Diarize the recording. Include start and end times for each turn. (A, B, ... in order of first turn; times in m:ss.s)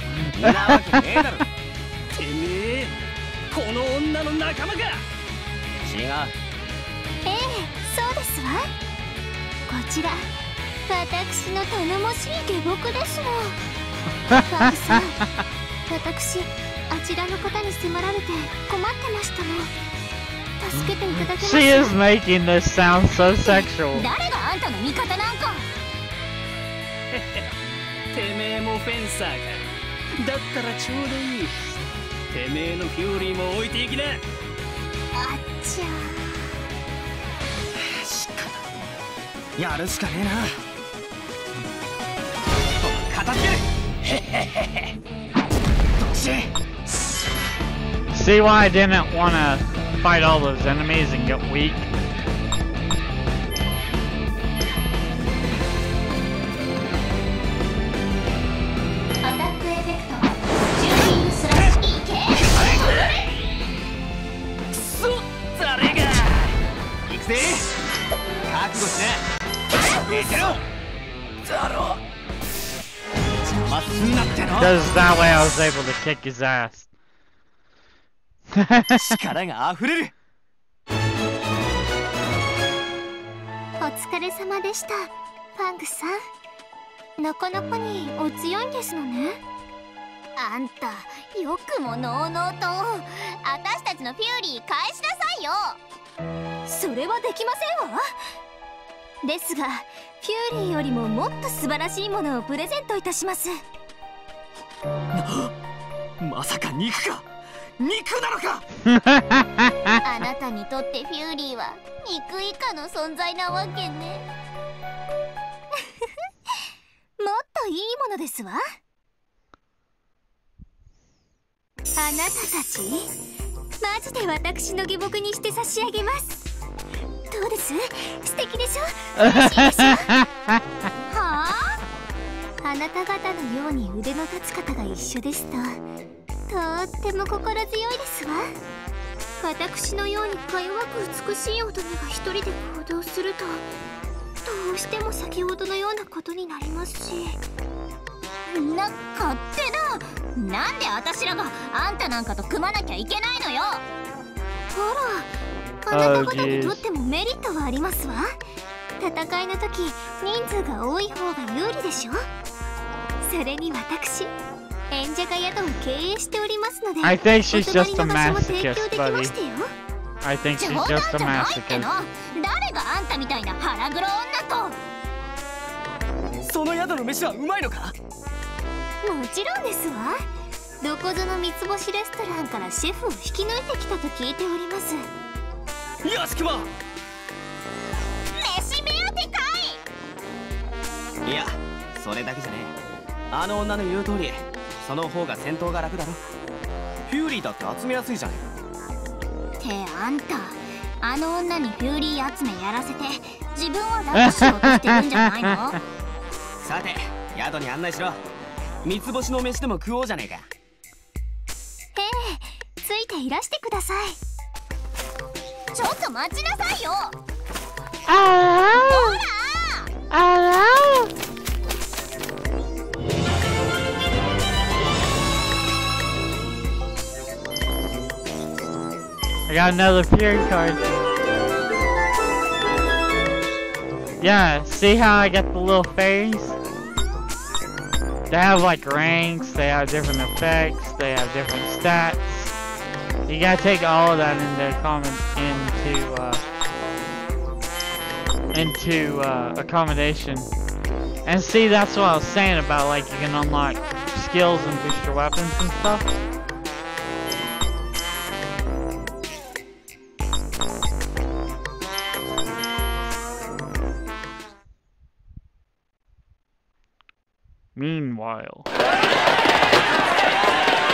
0:00.4-0:01.5 A
0:02.2-0:02.9 B
0:03.5-0:05.0 B
0:05.8-0:06.3 A
0:07.2-0:08.7 C
0:09.7-0:10.2 C
0:10.9-0:13.6 C
0:14.3-0:15.0 D
0:14.3-0:15.2 C
0:15.9-0:19.7 C
0:20.6-0:22.0 C
0:21.3-0:24.0 D
0:23.4-0:25.7 C
0:27.1-0:27.5 B
0:28.1-0:29.6 B
0:30.2-0:31.7 B
0:32.3-0:34.2 B
0:35.2-0:36.5 C
0:37.8-0:38.7 A
0:39.6-0:40.6 A
0:42.8-0:44.9 A
0:46.0-0:46.5 A
0:48.1-0:51.9 D
0:59.2-1:03.2 C
1:02.5-1:03.1 A
1:04.7-1:06.5 A
1:07.1-1:07.7 A
1:08.5-1:09.2 A
1:09.8-1:10.6 A
1:11.5-1:12.0 A
1:13.4-1:14.8 A
1:14.6-1:16.9 D
1:18.5-1:19.0 D
1:18.9-1:20.1 A
1:23.8-1:26.2 C
1:27.2-1:29.4 C
1:30.4-1:35.8 C
1:36.7-1:38.1 C
1:39.2-1:43.6 C
1:45.1-1:45.5 A
1:46.2-1:48.6 A
1:48.8-1:50.0 D
1:50.0-1:54.2 C
1:55.8-1:56.6 C
1:57.2-1:58.6 C
2:02.0-2:03.1 C
2:03.8-2:06.4 C
2:07.3-2:10.1 C
2:09.2-2:10.6 D
2:11.1-2:11.8 C
2:12.6-2:15.8 C
2:16.5-2:18.5 C
2:19.4-2:23.6 C
2:24.4-2:27.4 C
2:28.5-2:33.8 C
2:34.7-2:35.3 C
2:35.8-2:38.4 C
2:35.9-2:36.8 D
2:39.0-2:42.3 C
2:43.2-2:44.3 C
2:44.9-2:49.7 C
2:47.0-2:49.3 D
2:50.2-2:51.9 D
2:50.6-2:54.8 C
2:56.4-2:58.0 A
2:59.0-3:00.2 C
3:00.8-3:05.0 C
3:06.0-3:06.7 A
3:08.3-3:09.8 C
3:11.2-3:12.7 A
3:13.3-3:16.2 A
3:17.1-3:18.5 A
3:19.6-3:25.8 C
3:24.2-3:25.2 D
3:26.6-3:28.2 A
3:28.8-3:30.5 A
3:32.0-3:34.2 C
3:35.7-3:37.2 C
3:38.1-3:39.2 D
3:38.9-3:39.9 C
3:40.1-3:41.1 D
3:49.5-3:50.8 D
3:54.2-3:56.6 D
3:58.3-4:02.5 D
4:03.3-4:06.4 D
4:08.5-4:10.5 D
4:11.2-4:16.1 D
4:27.8-4:28.7 D